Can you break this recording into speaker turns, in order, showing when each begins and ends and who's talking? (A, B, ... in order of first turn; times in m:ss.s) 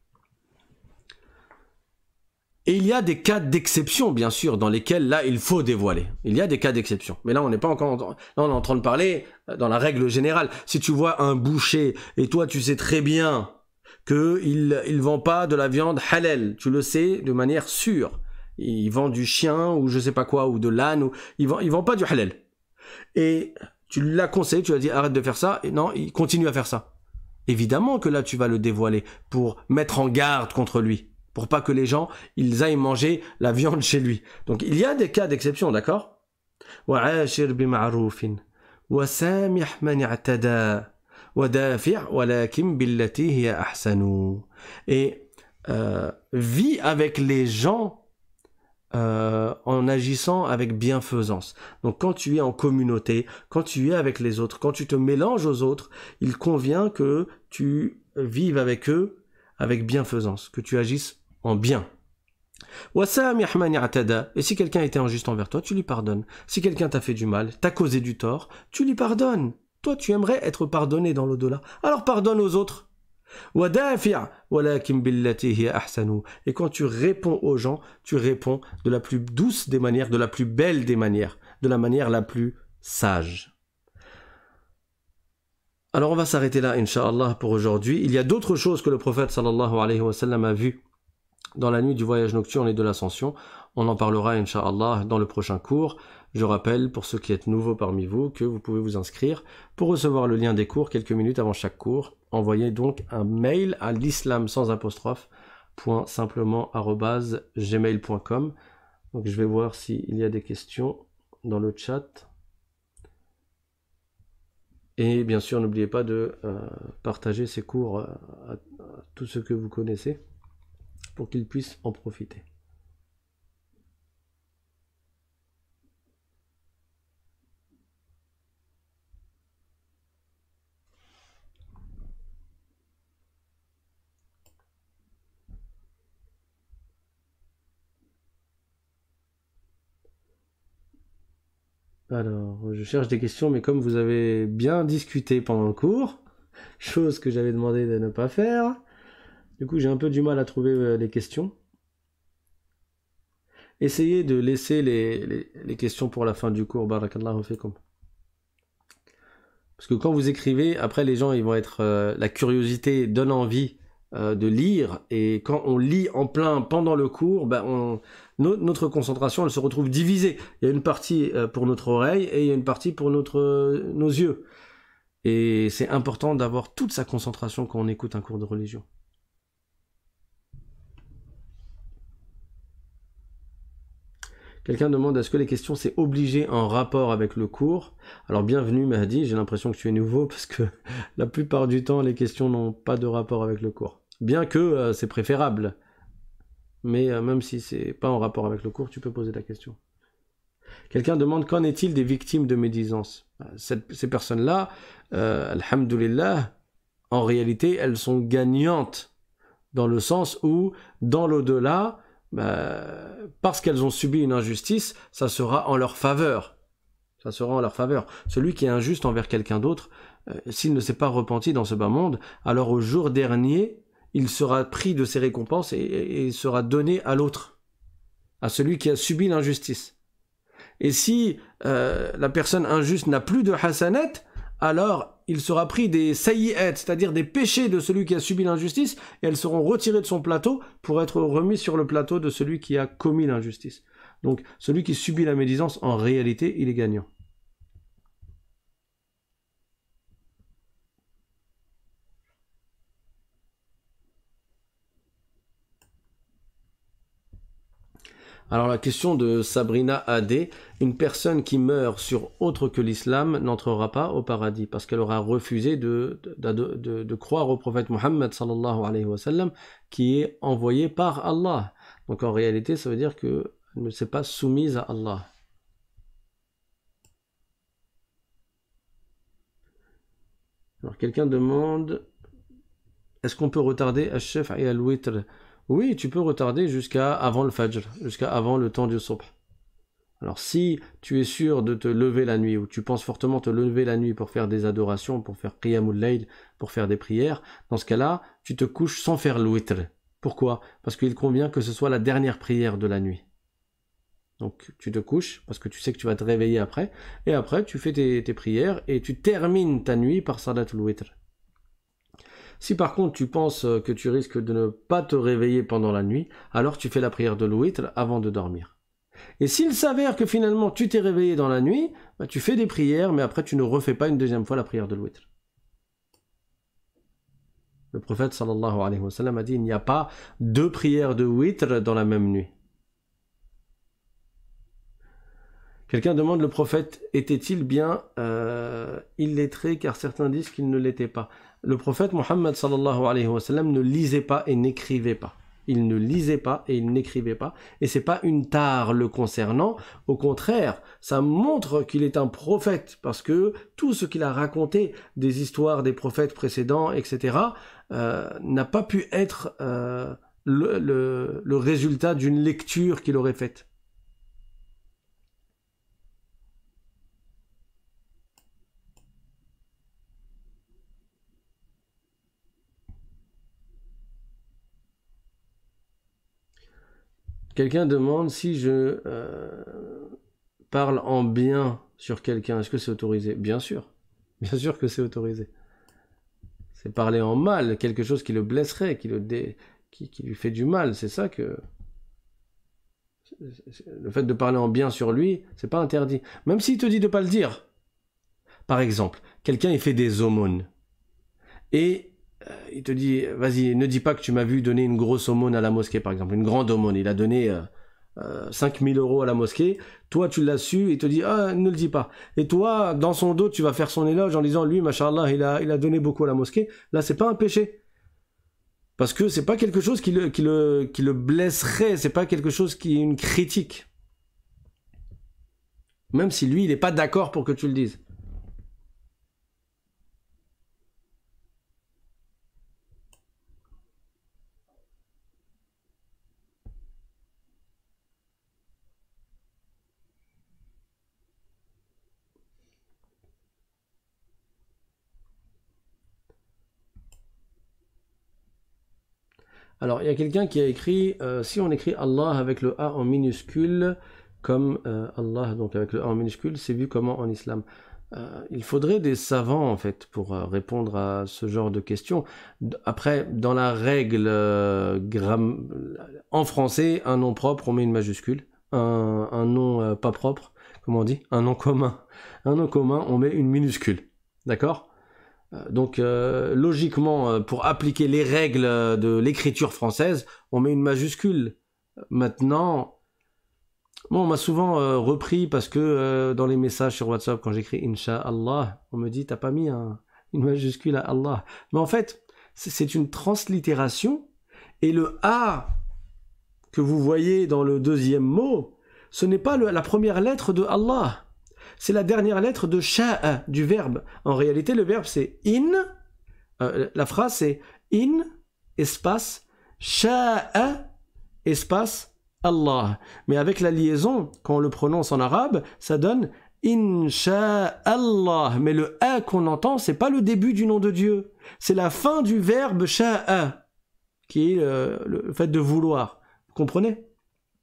0:02.6-0:13.5 A
0:14.0-0:22.4 A
0:23.1-0:26.9 A
0:27.5-0:36.2 A
0:36.9-0:48.0 A
0:48.9-1:01.8 A
1:02.9-1:12.9 A
1:13.5-1:23.5 A
1:25.9-1:30.8 A
1:31.6-1:48.5 A
1:49.1-1:52.3 A
1:55.0-2:00.2 A
2:01.1-2:02.4 A
2:22.1-2:26.2 A
2:26.8-2:28.8 A
2:29.6-2:31.5 A
2:33.8-2:37.8 A
2:39.8-2:54.4 A
2:55.2-2:58.8 A
3:04.6-3:15.7 A
3:16.8-3:19.8 A
3:20.9-3:26.5 A
3:27.1-3:29.1 A
3:29.7-3:36.5 A
3:37.2-3:47.6 A
3:48.4-3:49.9 A
3:50.8-4:07.1 A
4:18.5-4:35.3 A
4:40.8-4:42.0 A
4:43.2-4:49.3 A
4:50.2-5:03.2 A
5:04.4-5:11.1 A
5:12.6-5:18.8 A
5:19.4-5:25.3 A
5:27.9-5:32.5 A
5:35.9-6:03.6 A
6:17.5-6:20.1 A
6:20.7-6:23.9 A
6:24.4-6:25.5 A
6:26.7-6:31.6 A
6:33.4-6:37.6 A
6:38.7-6:40.7 A
6:41.7-6:57.8 A
6:59.0-7:03.9 A
7:06.1-7:08.0 A
7:29.8-7:54.9 A
7:55.5-8:01.6 A
8:02.1-8:02.9 A
8:04.1-8:14.3 A
8:14.8-8:15.7 A
8:16.7-8:21.2 A
8:21.8-8:25.8 A
8:26.6-8:30.9 A
8:31.4-8:43.6 A
8:44.3-8:47.0 A